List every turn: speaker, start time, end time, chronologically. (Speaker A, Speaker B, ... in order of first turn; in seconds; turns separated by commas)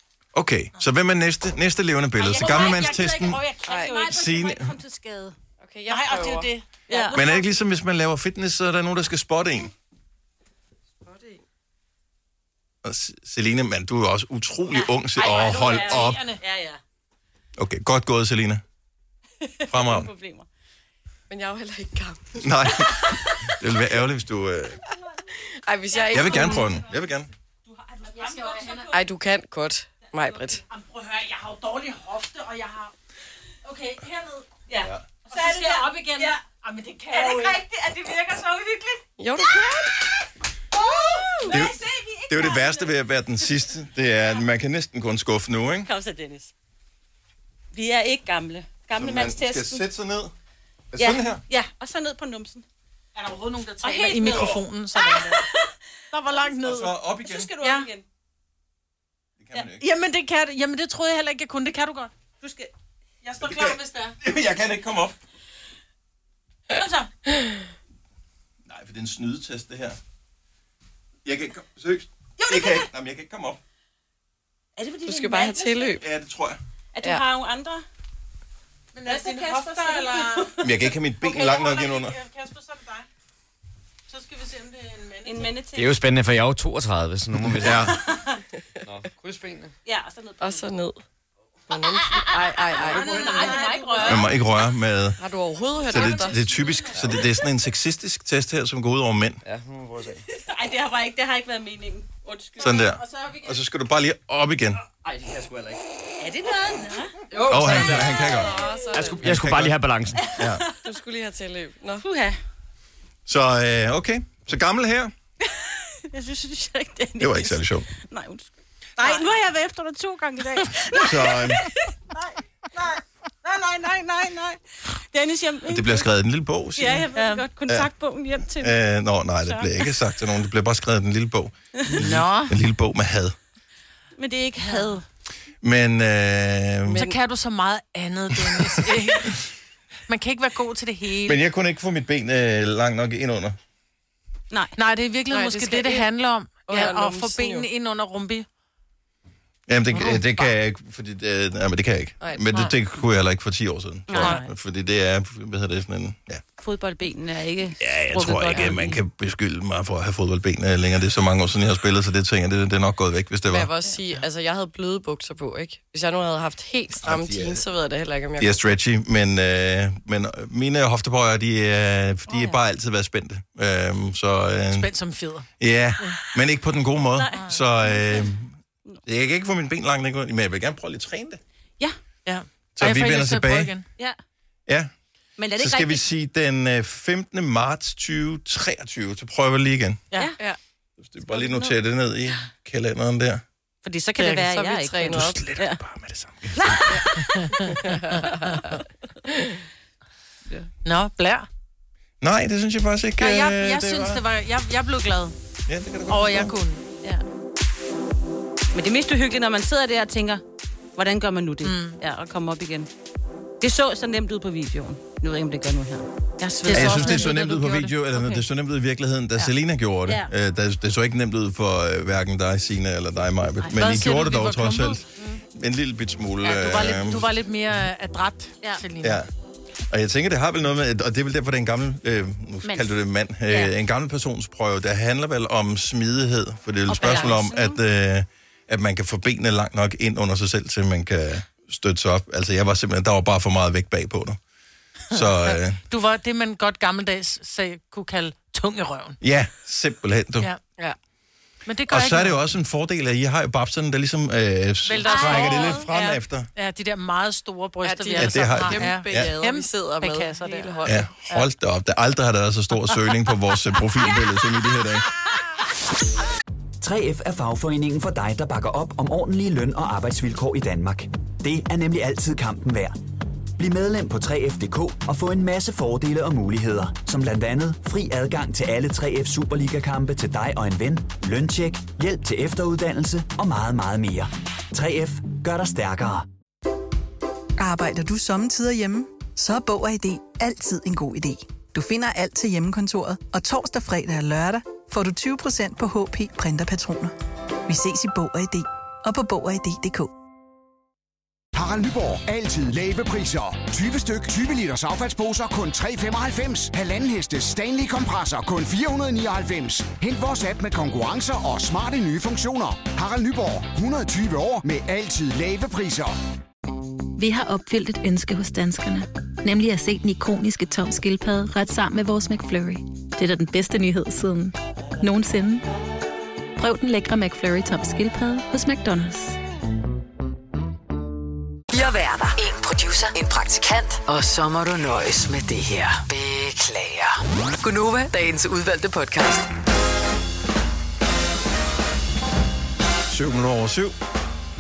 Speaker A: 0.3-3.5, Speaker B: 2.2-5.4, Speaker C: 2.2-3.6, Speaker D: 3.6-4.0, Speaker A: 4.0-4.7, Speaker D: 5.6-6.5, Speaker C: 5.9-7.4, Speaker B: 6.9-7.4, Speaker A: 7.1-9.7, Speaker D: 11.0-11.4, Speaker A: 12.8-16.2, Speaker B: 14.7-16.8, Speaker C: 15.2-16.4, Speaker A: 17.6-18.6, Speaker B: 19.4-20.5, Speaker A: 19.7-20.1, Speaker D: 21.3-22.4, Speaker A: 22.4-24.8, Speaker B: 22.8-23.5, Speaker D: 25.3-26.7, Speaker B: 25.9-26.8, Speaker A: 26.1-27.3, Speaker B: 27.7-29.0, Speaker C: 28.0-28.9, Speaker D: 28.9-30.6, Speaker C: 30.2-32.9, Speaker C: 33.6-34.5, Speaker B: 34.7-36.4, Speaker C: 35.3-37.6, Speaker B: 37.1-39.9, Speaker D: 39.2-39.9, Speaker B: 40.8-43.0, Speaker A: 41.5-41.8, Speaker A: 42.3-45.9, Speaker B: 45.9-46.5, Speaker B: 47.7-49.9, Speaker A: 49.0-50.3, Speaker A: 50.9-51.4, Speaker B: 51.0-52.6, Speaker C: 53.2-55.4, Speaker B: 53.8-55.7, Speaker A: 54.3-54.5, Speaker C: 56.1-56.9, Speaker A: 56.6-57.5, Speaker B: 57.2-58.0, Speaker C: 57.6-57.9, Speaker A: 59.4-59.8, Speaker C: 59.8-62.1, Speaker B: 62.4-62.7, Speaker C: 63.2-64.2, Speaker A: 63.4-65.2, Speaker B: 66.7-67.1, Speaker A: 68.7-70.0, Speaker A: 71.2-73.6, Speaker B: 72.5-72.9, Speaker B: 74.8-76.0, Speaker D: 75.1-76.0, Speaker A: 76.0-76.6, Speaker B: 76.9-77.8, Speaker C: 78.9-80.5, Speaker B: 79.0-80.6, Speaker A: 80.6-82.2, Speaker C: 81.2-83.1, Speaker C: 84.1-85.5, Speaker B: 85.2-86.0, Speaker E: 85.8-87.9, Speaker A: 87.6-88.0, Speaker B: 88.1-88.4, Speaker E: 88.8-89.7, Speaker B: 89.9-90.7, Speaker D: 90.4-91.0, Speaker D: 91.7-93.7, Speaker B: 92.0-94.4, Speaker C: 92.9-94.2, Speaker A: 94.0-95.2, Speaker D: 95.2-96.5, Speaker A: 95.9-99.4, Speaker B: 95.9-96.9, Speaker E: 99.5-100.2, Speaker B: 100.3-102.6, Speaker A: 102.6-104.8, Speaker E: 105.0-105.8, Speaker B: 106.2-107.1, Speaker E: 107.3-108.3, Speaker D: 107.4-109.4, Speaker A: 107.5-108.5, Speaker B: 108.3-108.8, Speaker E: 109.0-110.3, Speaker A: 109.2-110.7, Speaker D: 110.8-112.0, Speaker B: 112.0-112.4, Speaker A: 113.3-115.1, Speaker B: 115.4-126.1, Speaker A: 117.2-117.9, Speaker A: 121.0-121.6, Speaker A: 125.7-127.1, Speaker B: 126.8-128.8, Speaker C: 127.2-127.4, Speaker A: 128.6-133.3, Speaker B: 129.4-130.0, Speaker C: 131.9-132.6, Speaker B: 134.2-135.0, Speaker A: 135.6-137.1, Speaker C: 136.9-139.4, Speaker D: 136.9-137.2, Speaker C: 140.1-141.4, Speaker A: 141.3-143.6, Speaker C: 144.8-148.5, Speaker D: 145.3-146.1, Speaker D: 146.7-147.7, Speaker A: 149.7-156.4, Speaker C: 149.9-150.5, Speaker D: 152.2-152.7, Speaker B: 154.1-154.5, Speaker C: 154.2-154.4, Speaker B: 156.6-159.0, Speaker A: 157.8-163.7, Speaker C: 158.1-158.9, Speaker D: 163.5-168.7, Speaker A: 167.0-167.7, Speaker A: 168.4-174.9, Speaker B: 172.3-172.6, Speaker C: 174.7-175.5, Speaker A: 175.6-178.5, Speaker B: 177.2-178.3, Speaker C: 177.3-177.6, Speaker A: 179.1-181.4, Speaker C: 182.3-183.8, Speaker A: 182.8-183.7, Speaker B: 185.4-186.1, Speaker A: 185.6-190.0, Speaker A: 191.0-193.4, Speaker B: 191.3-191.8, Speaker B: 193.8-195.8, Speaker C: 194.2-194.4, Speaker D: 194.4-195.5, Speaker A: 195.1-196.5, Speaker B: 196.6-197.5, Speaker C: 197.5-197.9, Speaker D: 197.7-199.6, Speaker C: 198.5-198.7, Speaker C: 200.8-201.5, Speaker A: 202.2-204.2, Speaker C: 203.2-205.3, Speaker A: 205.7-206.5, Speaker C: 206.1-206.8, Speaker B: 208.7-210.4, Speaker B: 211.0-212.9, Speaker C: 211.6-212.0, Speaker B: 213.6-218.4, Speaker C: 216.4-217.7, Speaker A: 216.7-225.0, Speaker C: 223.7-225.0, Speaker A: 225.5-227.3, Speaker C: 226.4-229.2, Speaker A: 229.0-229.3, Speaker A: 229.9-244.4, Speaker B: 232.6-232.9, Speaker B: 233.5-233.8, Speaker B: 236.9-237.8, Speaker A: 245.1-245.8, Speaker C: 245.1-249.2, Speaker A: 249.2-250.5, Speaker C: 251.7-252.4, Speaker A: 251.9-256.5, Speaker C: 254.8-261.5, Speaker B: 255.1-255.9, Speaker D: 257.8-261.0, Speaker A: 258.2-259.3, Speaker A: 260.9-265.1, Speaker F: 266.8-273.0, Speaker F: 273.6-286.3, Speaker G: 287.6-297.1, Speaker G: 297.7-300.1, Speaker H: 301.6-316.2, Speaker I: 317.2-325.7, Speaker I: 326.6-329.4, Speaker J: 331.7-339.5, Speaker A: 343.1-344.0